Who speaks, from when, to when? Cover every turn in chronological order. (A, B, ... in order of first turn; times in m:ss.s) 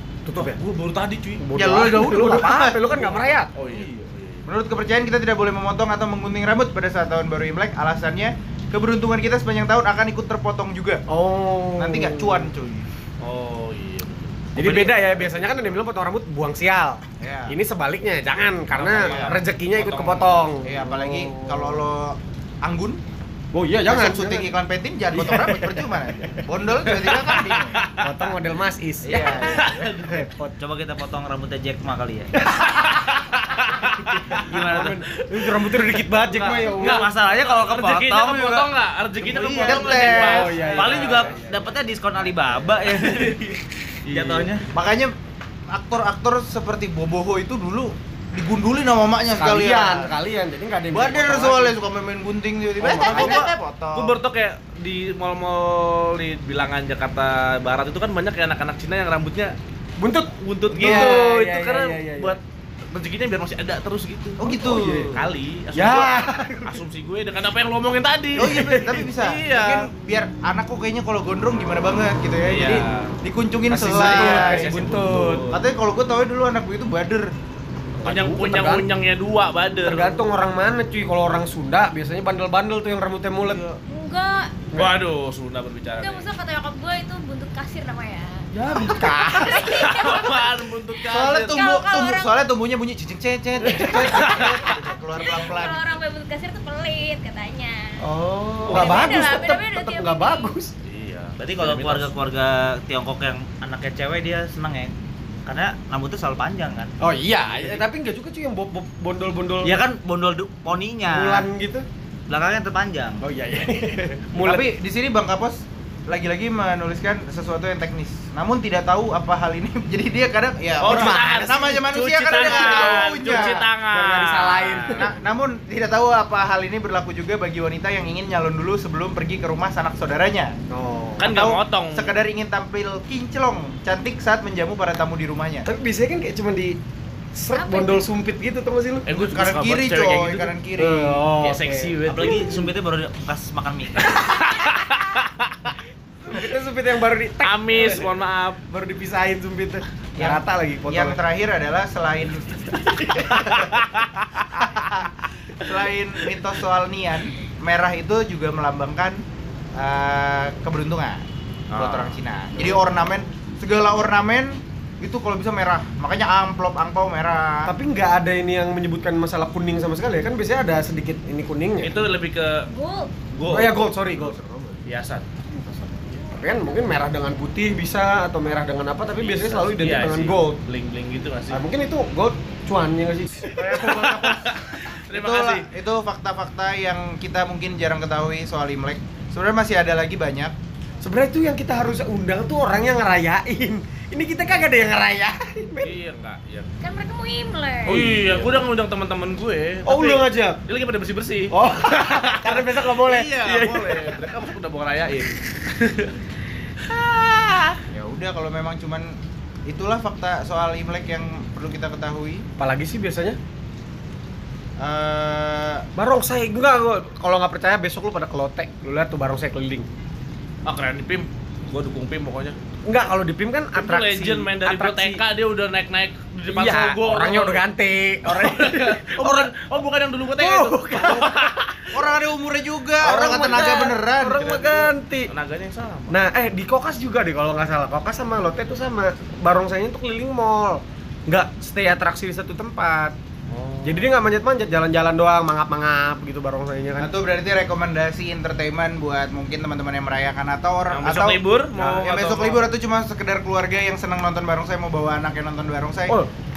0:00.2-0:00.6 A
0:00.3-0:01.6 B
0:01.4-0:03.5 A
0:01.5-0:03.1 C
0:03.0-0:04.4 B
0:04.4-0:11.0 C
0:11.1-0:12.5 A
0:11.8-0:12.9 C
0:13.2-0:14.9 B
0:14.5-0:21.9 A
0:14.7-0:15.2 C
0:17.2-0:17.6 C
0:18.7-0:20.4 B
0:18.9-0:19.4 C
0:20.6-0:23.0 C
0:23.5-0:24.5 A
0:23.8-0:27.8 C
0:25.1-0:26.3 A
0:26.9-0:28.1 B
0:28.0-0:30.5 A
0:29.0-0:30.0 C
0:29.2-0:30.3 B
0:30.4-0:32.4 D
0:32.4-0:36.0 B
0:34.3-0:35.0 D
0:34.3-0:37.1 A
0:36.3-0:43.4 D
0:36.5-0:41.4 B
0:39.5-0:40.6 C
0:40.1-0:41.7 A
0:42.8-0:44.4 B
0:44.1-0:44.7 D
0:44.7-0:45.1 C
0:45.7-0:50.1 C
0:49.4-0:51.8 A
0:50.9-0:54.2 C
0:52.8-0:53.5 A
0:52.8-0:59.5 B
1:00.0-1:02.4 A
1:00.4-1:09.9 B
1:00.8-1:01.2 C
1:04.4-1:05.2 C
1:04.5-1:05.2 A
1:05.7-1:06.8 A
1:08.4-1:14.8 C
1:08.4-1:09.1 A
1:12.4-1:13.1 B
1:13.7-1:15.5 A
1:13.8-1:15.6 B
1:15.5-1:17.3 C
1:18.0-1:18.9 A
1:18.0-1:20.2 B
1:19.8-1:23.6 A
1:23.5-1:23.8 C
1:23.9-1:24.6 E
1:24.7-1:25.0 A
1:24.7-1:26.3 B
1:25.9-1:28.5 E
1:28.5-1:29.8 A
1:29.3-1:30.5 E
1:29.6-1:31.6 B
1:31.0-1:36.0 C
1:31.5-1:32.4 E
1:33.6-1:34.1 A
1:33.9-1:34.6 B
1:35.1-1:38.0 E
1:38.0-1:40.7 A
1:38.7-1:39.3 B
1:38.7-1:40.5 E
1:40.8-1:42.1 B
1:41.4-1:44.9 D
1:45.4-1:46.9 D
1:47.0-1:49.7 A
1:49.6-1:51.5 D
1:51.1-1:51.9 A
1:52.3-1:53.2 D
1:53.2-1:54.7 A
1:54.4-2:03.7 C
2:00.8-2:05.1 B
2:00.8-2:01.6 A
2:02.3-2:05.2 A
2:04.9-2:10.6 C
2:10.7-2:11.3 A
2:11.2-2:12.2 B
2:11.2-2:15.7 C
2:15.6-2:16.8 A
2:17.3-2:19.1 A
2:17.5-2:18.1 E
2:19.0-2:20.6 B
2:19.2-2:21.2 C
2:20.8-2:22.0 A
2:21.4-2:22.6 B
2:22.0-2:24.2 D
2:24.0-2:25.7 B
2:26.2-2:28.1 A
2:27.4-2:28.6 B
2:28.7-2:31.2 A
2:30.2-2:33.8 C
2:33.4-2:34.0 B
2:34.5-2:39.2 C
2:39.8-2:47.7 C
2:41.7-2:42.2 B
2:47.6-2:52.0 A
2:51.8-2:52.7 B
2:52.7-2:53.1 E
2:53.3-2:55.3 B
2:53.5-2:54.8 A
2:55.5-3:00.6 A
2:59.2-3:01.6 B
3:01.5-3:04.3 A
3:03.6-3:10.5 C
3:03.7-3:05.7 B
3:11.0-3:15.9 A
3:15.8-3:16.7 B
3:16.8-3:18.1 E
3:17.8-3:26.1 B
3:17.9-3:18.6 A
3:19.8-3:20.6 A
3:21.5-3:24.2 A
3:26.9-3:27.8 B
3:27.9-3:32.4 C
3:32.6-3:33.4 A
3:34.8-3:35.8 C
3:36.0-3:39.9 A
3:40.6-3:42.6 B
3:42.8-3:45.2 A
3:43.7-3:47.6 B
3:46.5-3:49.5 A
3:48.2-3:51.8 B
3:50.4-3:51.9 A
3:51.9-3:54.9 C
3:53.0-3:55.3 A
3:55.3-3:56.2 B
3:56.1-4:03.2 A
4:03.5-4:04.1 B
4:03.8-4:07.1 A
4:07.0-4:16.2 C
4:10.9-4:12.6 B